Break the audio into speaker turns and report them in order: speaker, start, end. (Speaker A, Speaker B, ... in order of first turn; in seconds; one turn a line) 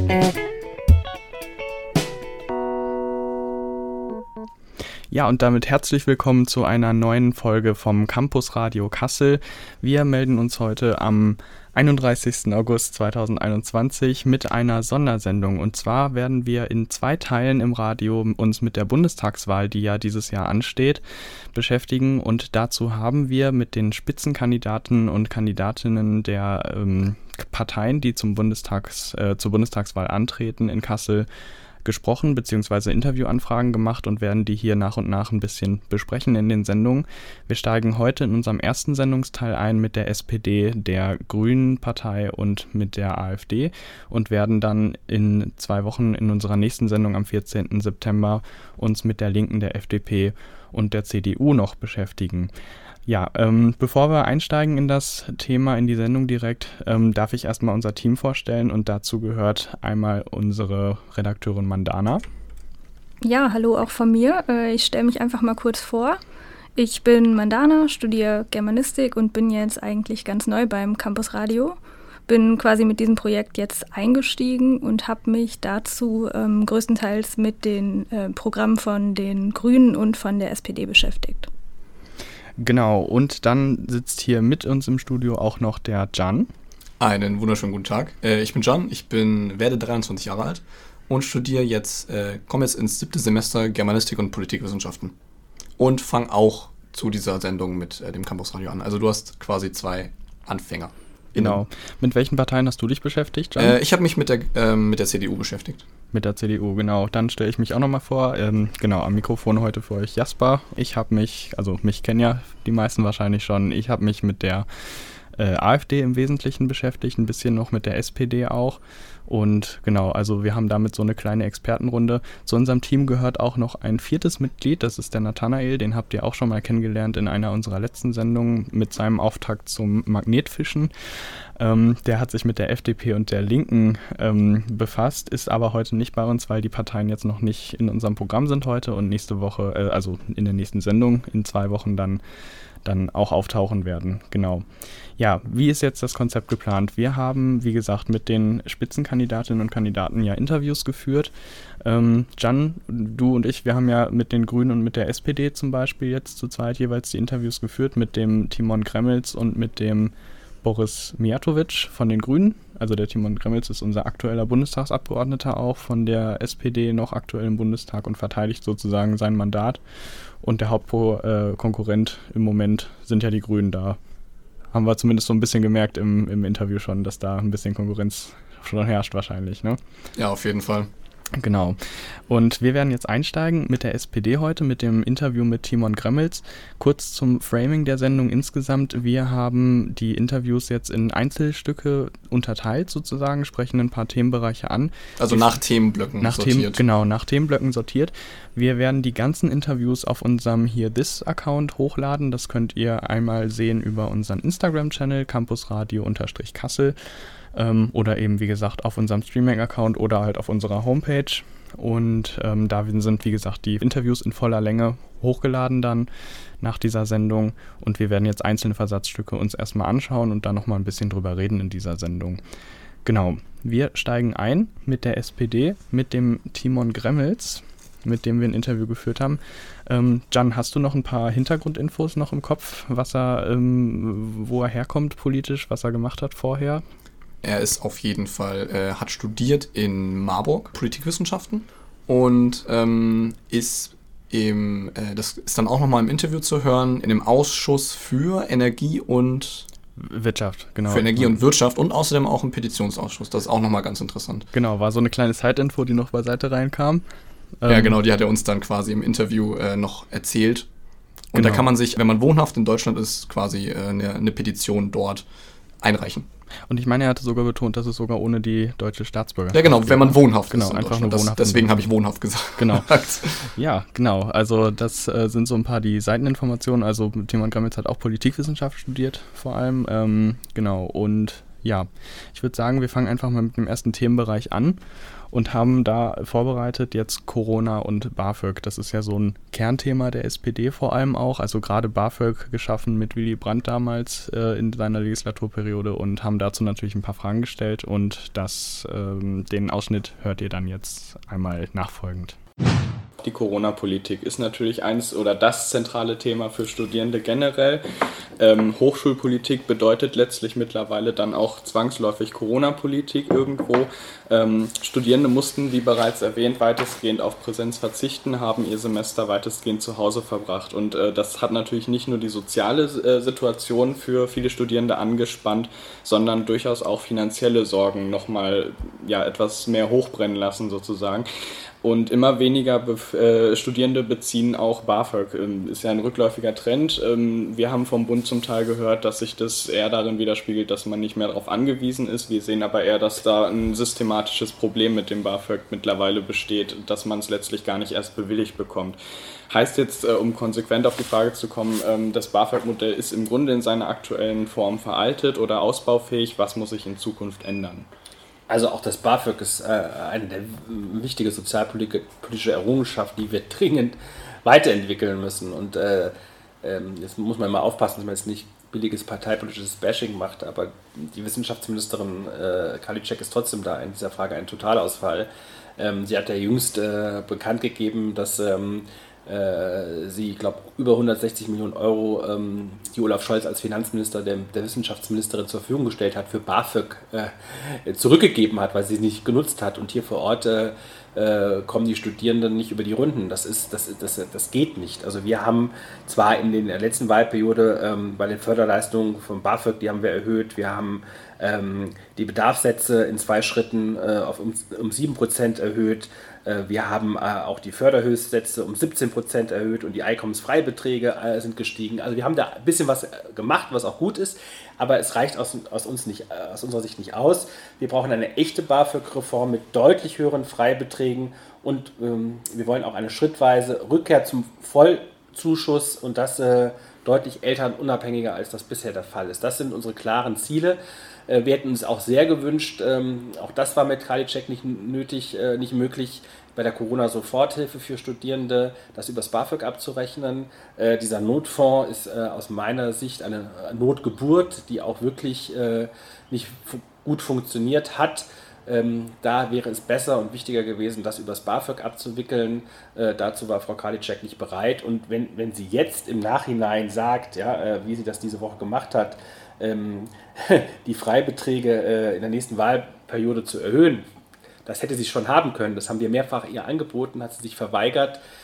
Speaker A: 5.1-21.0
Speaker A: 21.5-31.3
Speaker A: 31.8-52.5
Speaker A: 53.1-62.2
Speaker B: 63.2-66.2
Speaker B: 66.8-81.5
Speaker A: 82.6-86.5
Speaker C: 87.0-95.2
Speaker C: 95.8-101.6
Speaker A: 101.4-103.8
Speaker C: 103.6-105.9
Speaker A: 106.1-114.7
Speaker A: 115.3-130.9
Speaker A: 131.6-142.2
Speaker A: 142.8-144.6
Speaker A: 145.2-151.3
Speaker A: 151.8-160.1
Speaker A: 160.6-169.8
Speaker A: 170.4-174.0
Speaker A: 174.7-179.8
Speaker C: 180.2-180.9
Speaker A: 181.3-195.6
Speaker C: 195.2-196.8
Speaker A: 196.2-207.0
Speaker A: 207.5-216.1
Speaker A: 216.6-222.4
Speaker A: 223.1-236.8
Speaker C: 237.4-249.7
Speaker A: 250.0-251.4
Speaker C: 250.9-254.5
Speaker A: 254.5-257.0
Speaker A: 257.6-258.0
Speaker C: 257.7-260.7
Speaker C: 261.3-265.2
Speaker A: 261.4-261.7
Speaker C: 265.8-266.3
Speaker A: 266.7-271.9
Speaker C: 269.5-273.4
Speaker A: 272.6-284.8
Speaker A: 285.3-302.4
Speaker A: 303.2-331.3
Speaker A: 331.8-349.0
Speaker A: 349.5-357.9
Speaker D: 358.5-464.1
Speaker D: 464.6-468.2